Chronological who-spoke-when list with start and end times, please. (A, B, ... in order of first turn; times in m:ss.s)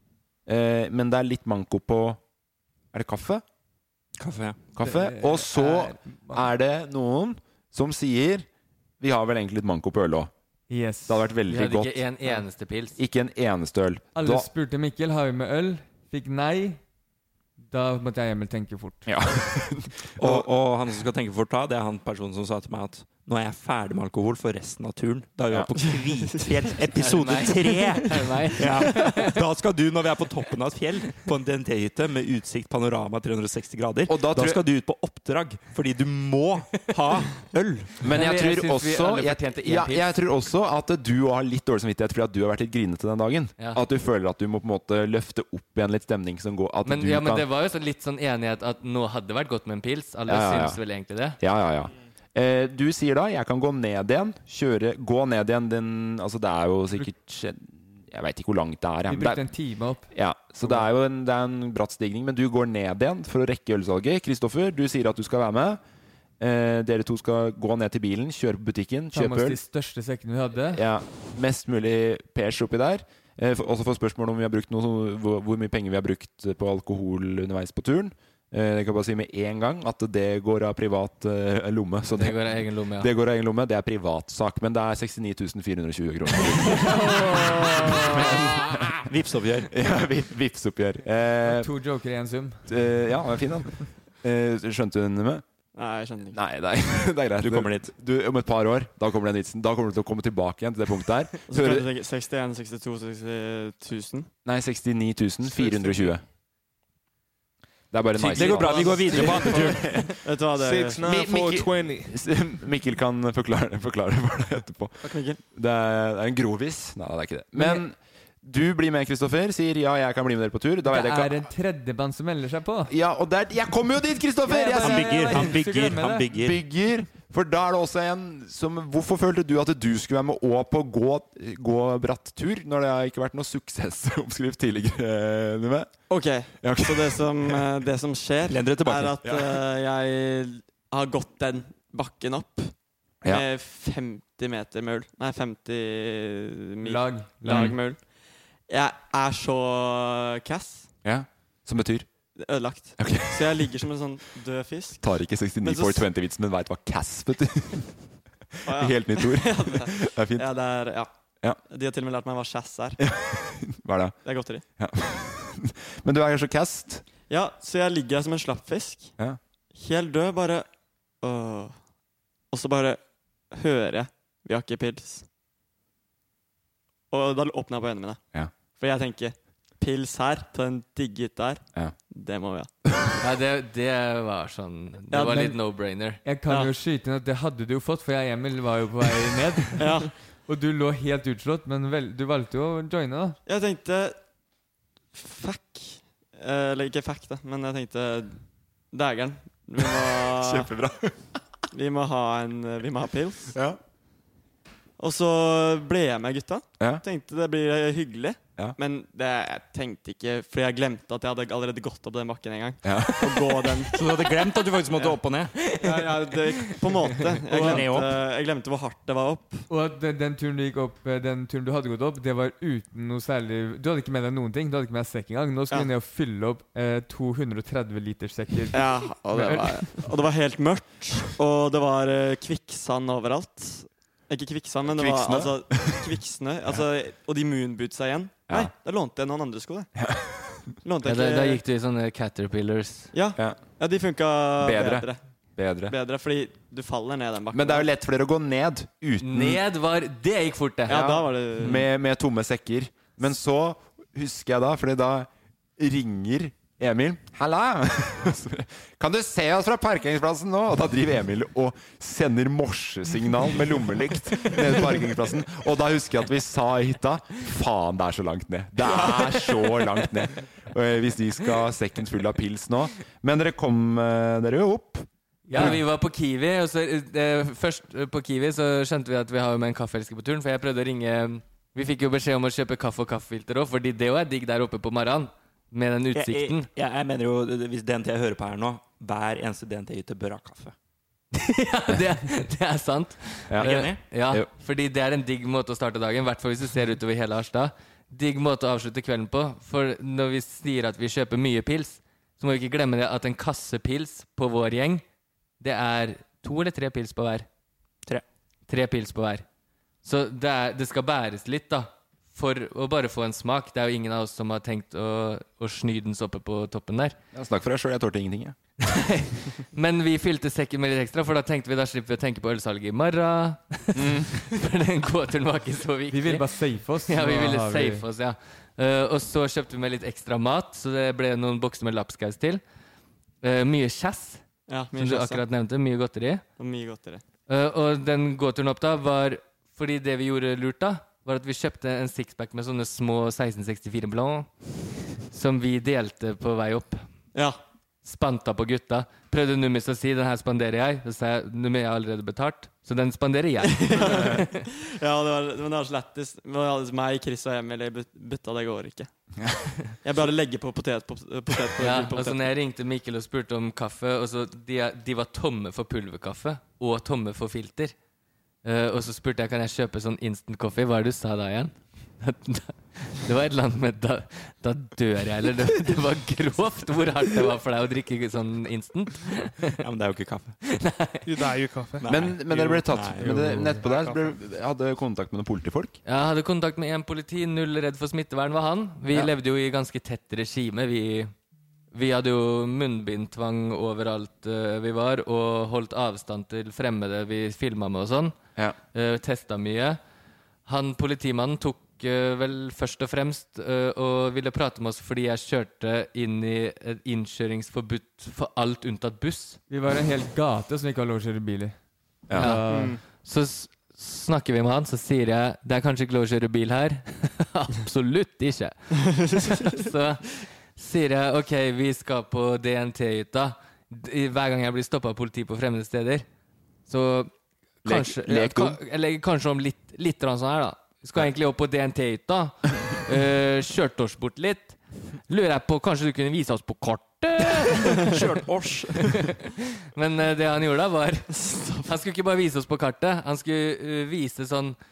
0:00.4-0:02.2 A
0:02.9-0:03.4 A
0:04.2-0:04.6 B
0:04.7-0:08.5 A
0:04.8-0:06.5 C
0:09.0-0:10.3 A
0:10.7-0:11.3 C
0:11.1-0:12.0 A
0:11.5-0:13.0 D
0:13.0-0:14.5 A
0:14.1-0:16.8 C
0:17.7-0:19.1 C
0:19.0-0:20.0 A
0:20.1-0:38.0 B
0:27.0-0:29.4 D
0:34.1-0:34.6 A
0:38.0-0:47.4 A
0:38.1-0:40.1 D
0:46.8-0:51.4 D
0:50.3-0:50.8 A
0:51.4-0:59.5 A
0:59.1-1:00.1 C
1:00.1-1:05.8 A
1:06.4-1:09.6 A
1:09.1-1:10.8 C
1:10.7-1:29.1 A
1:22.2-1:23.1 D
1:29.1-1:29.7 B
1:29.7-1:31.7 A
1:31.4-1:32.6 C
1:32.7-1:35.4 A
1:35.7-1:36.4 E
1:36.3-1:41.9 A
1:37.4-1:37.9 B
1:41.5-1:44.3 E
1:44.4-1:46.2 A
1:45.5-1:46.1 E
1:47.9-1:50.2 A
1:48.2-1:50.2 B
1:48.4-1:49.2 D
1:50.2-1:51.0 E
1:50.5-1:52.1 F
1:51.0-2:01.4 A
1:55.0-1:55.4 E
1:57.6-1:57.8 C
2:00.8-2:02.9 C
2:02.9-2:05.6 A
2:04.4-2:06.3 C
2:04.7-2:06.6 B
2:06.3-2:16.0 A
2:16.1-2:28.1 E
2:16.6-2:17.6 A
2:18.4-2:19.2 B
2:26.8-2:27.8 C
2:28.7-2:30.9 E
2:31.0-2:32.1 A
2:32.4-2:36.0 E
2:33.0-2:33.7 A
2:35.0-2:37.9 A
2:38.6-2:40.5 A
2:38.6-2:41.1 E
2:41.7-2:43.0 E
2:43.0-2:44.2 A
2:44.2-2:44.6 E
2:44.8-2:47.0 A
2:47.3-2:49.1 E
2:49.7-2:50.7 E
2:51.2-2:51.7 E
2:52.5-2:53.0 E
2:53.5-2:55.2 E
2:57.1-2:58.2 E
2:58.8-3:02.7 E
3:03.2-3:06.2 D
3:05.1-3:05.5 E
3:06.2-3:13.4 C
3:09.8-3:10.1 E
3:13.4-3:14.2 E
3:15.2-3:18.4 E
3:18.9-3:20.7 E
3:19.8-3:21.4 A
3:21.7-3:23.5 E
3:23.5-3:23.8 A
3:25.0-3:33.9 E
3:32.8-3:33.6 A
3:33.9-3:35.5 B
3:35.6-3:36.0 D
3:35.8-3:39.6 E
3:37.5-3:38.2 B
3:39.7-3:49.9 C
3:48.7-3:59.9 E
3:54.9-3:56.1 A
4:00.0-4:00.6 A
4:00.8-4:01.6 E
4:01.0-4:03.1 D
4:03.1-4:05.2 E
4:04.6-4:05.9 A
4:05.9-4:07.9 E
4:07.5-4:09.6 A
4:09.2-4:11.8 D
4:10.9-4:11.8 E
4:11.6-4:35.8 A
4:28.9-4:29.7 E
4:35.5-4:46.7 D
4:46.1-4:50.7 B
4:51.3-5:05.0 D
4:53.5-4:54.5 A
4:53.6-4:54.0 B
5:05.6-5:07.5 D
5:08.7-5:09.4 D
5:10.0-5:17.2 D
5:17.3-5:18.6 A
5:18.8-5:26.5 D
5:23.9-5:24.4 A
5:26.1-5:28.0 C
5:27.1-5:32.6 D
5:33.4-5:36.4 D
5:34.7-5:35.4 E
5:36.6-5:37.2 E
5:37.5-5:47.1 D
5:47.3-5:47.6 E
5:48.0-5:54.5 D
5:53.6-5:59.1 E
5:59.4-5:59.7 A
6:00.0-6:02.5 E
6:01.8-6:07.9 D
6:08.6-6:19.7 D
6:19.8-6:20.6 B
6:20.6-6:21.5 D
6:21.2-6:22.2 F
6:22.0-6:23.5 B
6:22.1-6:25.9 A
6:23.2-6:24.3 F
6:26.0-6:31.3 D
6:31.9-6:38.4 D
6:38.9-6:40.0 D
6:40.6-6:49.6 D
6:49.7-6:51.8 C
6:52.3-6:53.0 C
6:52.3-7:06.2 D
6:52.7-6:53.0 E
7:06.9-7:07.3 D
7:07.8-7:18.2 D
7:07.8-7:08.8 A
7:18.0-7:19.3 B
7:19.0-7:24.8 D
7:21.3-7:21.9 E